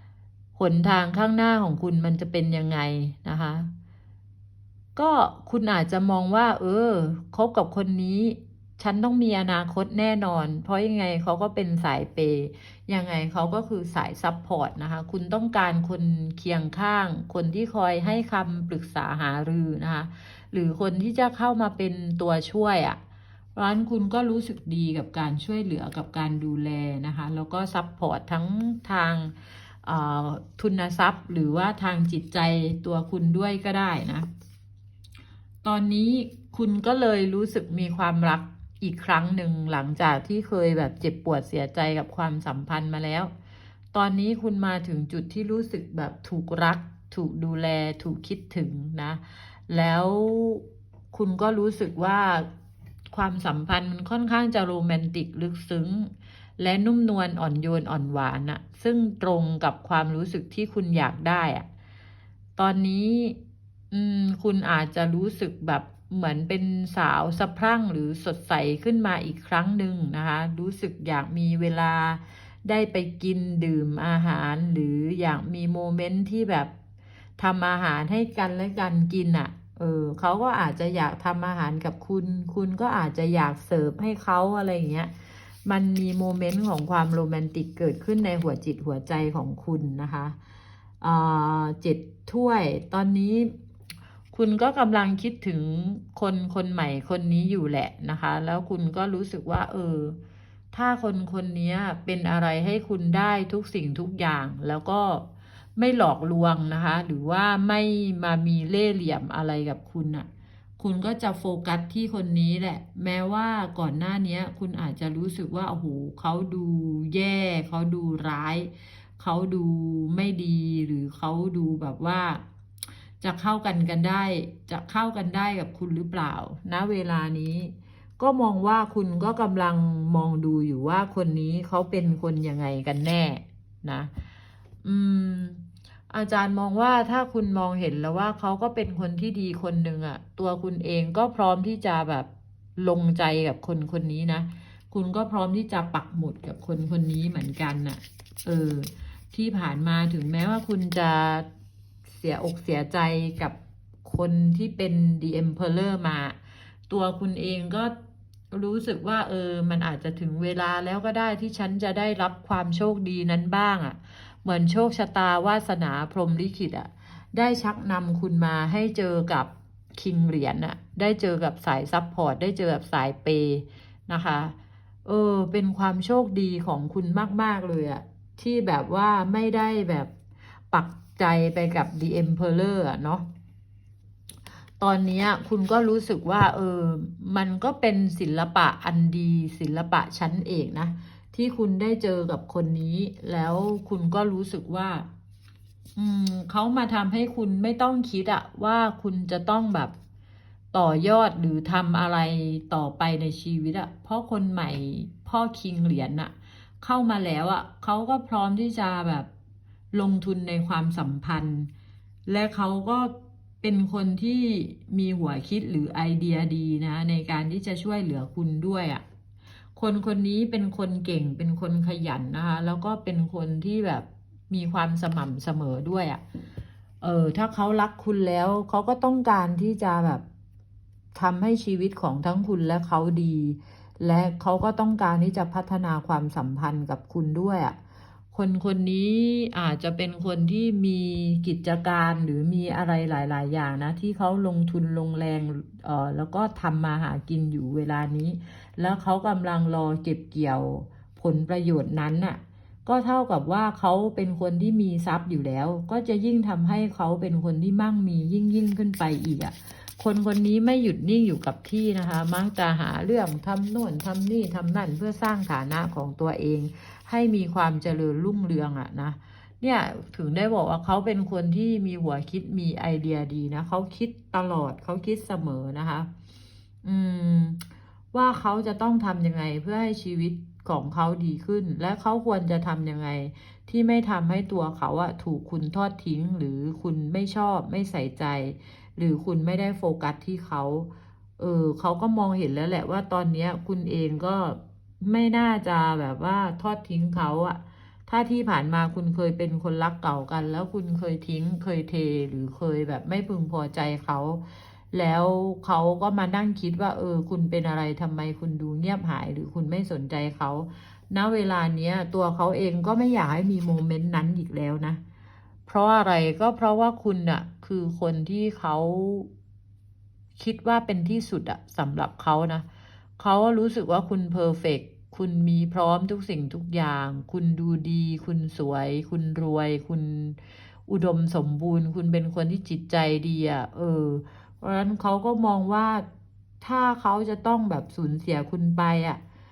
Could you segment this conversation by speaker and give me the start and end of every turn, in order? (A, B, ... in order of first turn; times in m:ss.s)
0:00.6-0:03.7 A
0:05.0-0:23.0 A
0:23.6-0:29.3 A
0:29.8-0:34.3 A
0:35.6-0:43.3 A
0:43.9-0:52.5 A
0:53.1-1:01.6 A
1:02.6-1:03.4 A
1:03.9-1:16.7 A
1:17.4-1:25.1 A
1:25.6-1:30.4 A
1:31.0-1:33.5 A
1:34.3-1:40.2 A
1:40.7-1:50.3 A
1:50.8-2:02.4 A
2:03.2-2:14.1 A
2:14.8-2:31.4 A
2:32.1-2:36.4 A
2:36.9-2:37.9 A
2:38.5-2:54.5 A
2:55.0-3:00.1 A
3:00.7-3:03.2 A
3:04.8-3:15.1 A
3:16.0-3:19.9 A
3:20.7-3:29.3 A
3:29.9-3:31.7 A
3:32.3-3:39.0 A
3:39.8-3:46.2 A
3:47.0-3:50.2 A
3:51.1-3:57.8 A
3:58.3-4:36.1 A
4:36.8-5:15.0 A
5:15.7-5:19.3 A
5:20.4-5:22.6 A
5:23.2-5:36.0 A
5:36.6-5:39.2 A